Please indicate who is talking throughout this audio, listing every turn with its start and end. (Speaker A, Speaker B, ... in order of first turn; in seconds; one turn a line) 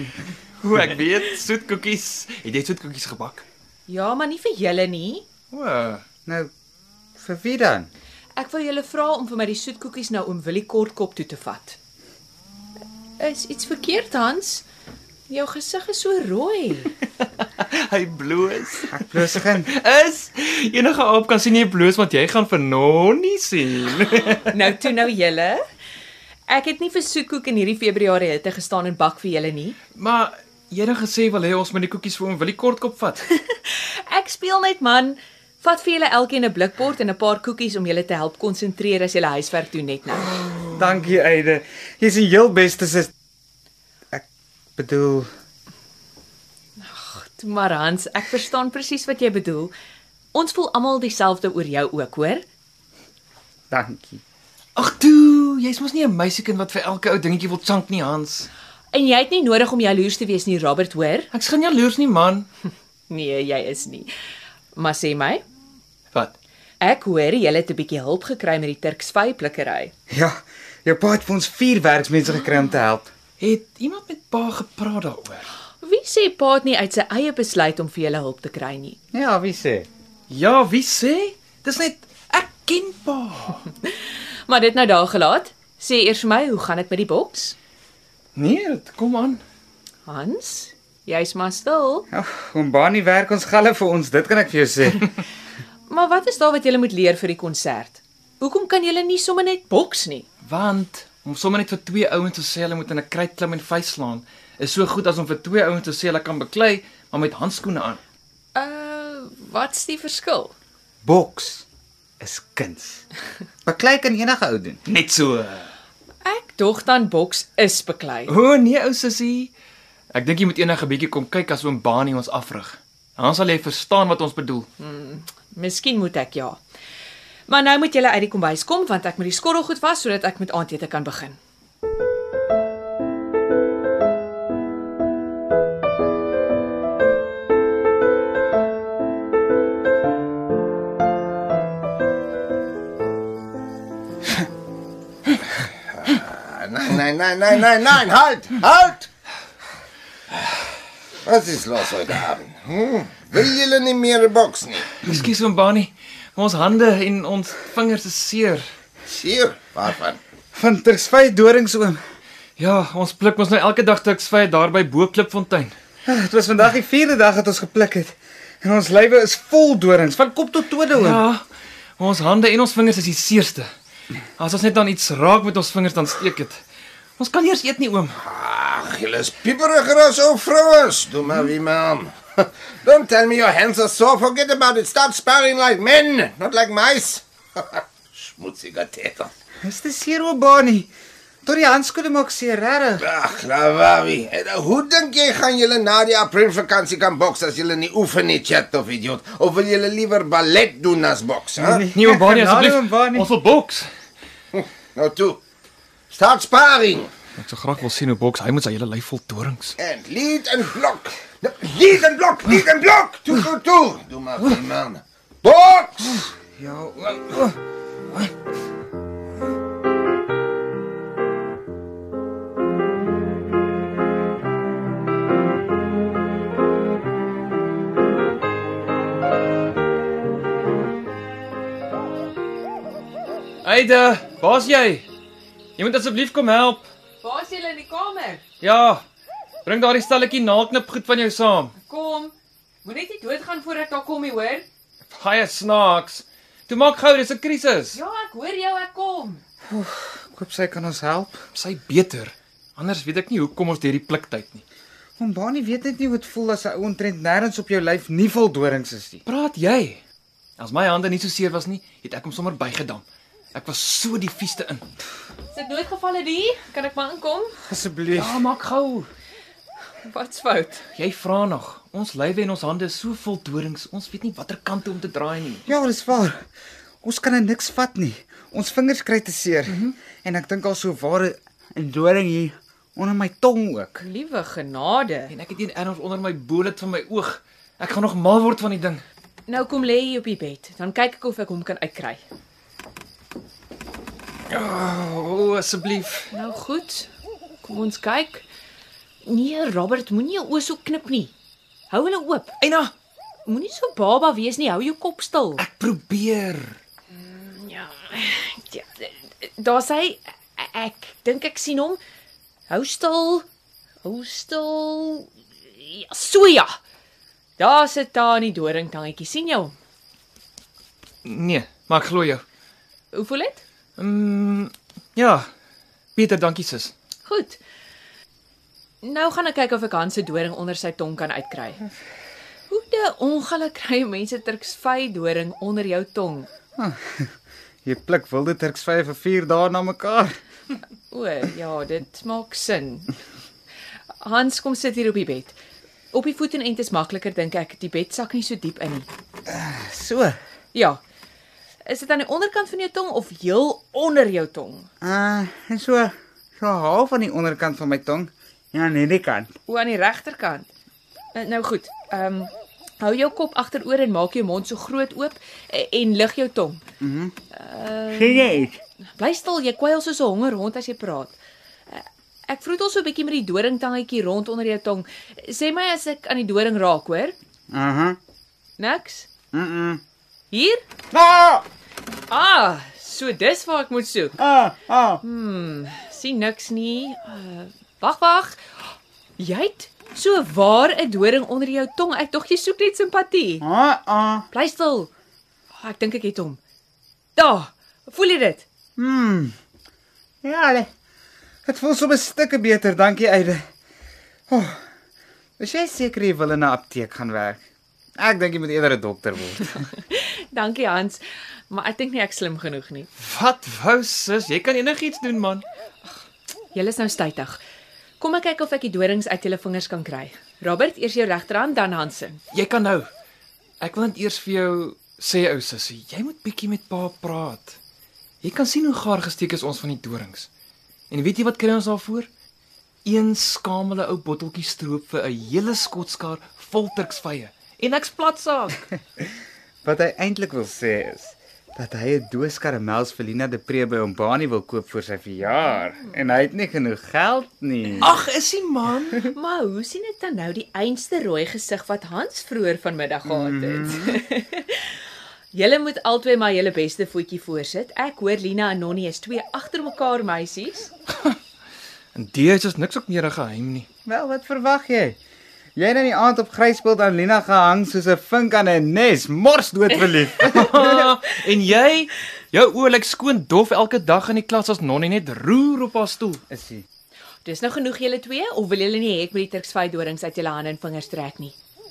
Speaker A: 0.6-3.5
Speaker B: 3.9-5.2
Speaker A: 5.5-6.0
Speaker C: 7.2-7.9
Speaker B: 8.4-11.8
Speaker B: 13.2-14.7
Speaker B: 15.3-16.9
Speaker A: 17.4-24.6
Speaker C: 18.9-19.7
Speaker B: 24.5-25.6
Speaker B: 26.5-29.8
Speaker A: 30.0-33.2
Speaker B: 33.3-40.3
Speaker A: 40.3-40.6
Speaker C: 40.7-43.1
Speaker C: 44.8-45.3
Speaker B: 46.8-49.7
Speaker B: 50.3-52.5
Speaker C: 53.7-54.2
Speaker A: 54.8-58.5
Speaker B: 58.9-61.3
Speaker A: 61.3-62.5
Speaker B: 63.1-64.1
Speaker B: 64.8-65.4
Speaker B: 66.8-69.9
Speaker C: 70.1-73.1
Speaker A: 73.4-75.5
Speaker B: 75.8-79.0
Speaker C: 79.1-79.9
Speaker A: 80.3-83.7
Speaker B: 84.5-87.6
Speaker A: 88.4-89.4
Speaker B: 90.1-92.1
Speaker C: 92.1-95.1
Speaker B: 95.9-100.3
Speaker A: 100.5-108.0
Speaker B: 108.5-110.5
Speaker C: 111.0-111.7
Speaker C: 112.2-113.0
Speaker C: 113.7-114.8
Speaker A: 114.9-115.7
Speaker B: 116.2-118.3
Speaker A: 118.3-119.5
Speaker A: 120.1-124.7
Speaker B: 124.8-126.6
Speaker B: 127.5-131.4
Speaker D: 145.6-149.1
Speaker D: 150.3-150.7
Speaker D: 151.2-154.9
Speaker A: 155.0-158.6
Speaker D: 159.1-160.2
Speaker C: 160.5-162.0
Speaker A: 162.6-165.7
Speaker C: 166.1-171.2
Speaker A: 170.9-171.4
Speaker A: 172.0-173.7
Speaker A: 174.4-176.6
Speaker A: 177.2-178.2
Speaker D: 178.2-189.3
Speaker C: 189.6-190.9
Speaker C: 191.4-193.0
Speaker D: 193.0-201.8
Speaker C: 201.6-203.3
Speaker A: 201.9-203.9
Speaker D: 204.5-205.4
Speaker D: 206.1-207.1
Speaker A: 207.4-209.8
Speaker D: 209.8-216.2
Speaker C: 216.5-217.6
Speaker A: 233.6-235.1
Speaker A: 235.8-236.9
Speaker B: 237.2-238.4
Speaker A: 238.6-239.0
Speaker A: 239.7-241.7
Speaker B: 241.8-244.7
Speaker A: 245.1-248.0
Speaker B: 247.9-249.4
Speaker C: 249.7-251.4
Speaker A: 251.5-254.6
Speaker C: 255.2-259.2
Speaker A: 259.3-260.0
Speaker A: 260.6-263.0
Speaker A: 263.6-264.9
Speaker B: 265.5-267.5
Speaker C: 267.7-268.4
Speaker A: 268.1-269.1
Speaker B: 270.0-270.8
Speaker A: 270.9-275.6
Speaker C: 275.7-276.4
Speaker C: 277.0-284.1
Speaker A: 279.7-279.9
Speaker B: 284.0-285.3
Speaker A: 285.3-289.0
Speaker B: 289.5-292.2
Speaker A: 294.5-296.3
Speaker B: 296.3-297.1
Speaker B: 297.6-298.4
Speaker B: 299.2-301.3
Speaker B: 301.9-302.6
Speaker A: 302.6-302.9
Speaker B: 303.5-305.6
Speaker A: 305.6-306.8
Speaker B: 307.1-312.0
Speaker B: 312.7-313.5
Speaker B: 314.0-316.7
Speaker B: 317.6-319.7
Speaker A: 321.2-322.4
Speaker B: 323.1-323.6
Speaker A: 324.0-325.5
Speaker A: 326.2-326.9
Speaker B: 327.2-327.6
Speaker B: 329.0-331.8
Speaker B: 332.7-336.5
Speaker C: 336.8-337.2
Speaker C: 337.9-340.3
Speaker B: 341.1-343.1
Speaker B: 344.2-345.6
Speaker B: 346.1-349.1
Speaker C: 349.5-350.4
Speaker B: 350.7-351.0
Speaker B: 351.9-354.9
Speaker C: 355.0-359.5
Speaker B: 359.7-360.7
Speaker B: 361.3-366.8
Speaker C: 367.0-367.3
Speaker B: 367.5-368.5
Speaker C: 368.1-368.8
Speaker B: 369.2-371.4
Speaker B: 371.9-377.4
Speaker C: 377.7-378.2
Speaker B: 378.8-379.3
Speaker C: 379.5-380.0
Speaker B: 380.5-380.8
Speaker C: 381.1-381.6
Speaker B: 382.3-384.4
Speaker C: 384.4-385.2
Speaker B: 385.2-388.7
Speaker B: 389.4-393.6
Speaker C: 393.6-394.5
Speaker B: 394.5-395.1
Speaker B: 395.7-396.6
Speaker B: 397.4-398.7
Speaker C: 399.0-399.5
Speaker C: 400.4-400.9
Speaker C: 401.7-403.6
Speaker C: 404.5-404.8
Speaker C: 405.6-407.6
Speaker C: 408.2-409.8
Speaker B: 409.8-413.1
Speaker A: 413.2-415.6
Speaker B: 416.7-417.6
Speaker B: 418.2-422.4
Speaker A: 422.5-423.1
Speaker A: 423.8-427.8
Speaker A: 428.4-430.5
Speaker A: 431.1-432.3
Speaker A: 433.1-438.8
Speaker C: 439.8-448.1
Speaker A: 448.0-449.2
Speaker B: 449.2-454.9
Speaker C: 453.3-454.2
Speaker B: 455.5-460.9
Speaker A: 462.1-463.9
Speaker C: 464.1-465.2
Speaker C: 465.8-471.0
Speaker A: 470.4-476.4
Speaker C: 476.5-476.9
Speaker B: 477.4-481.6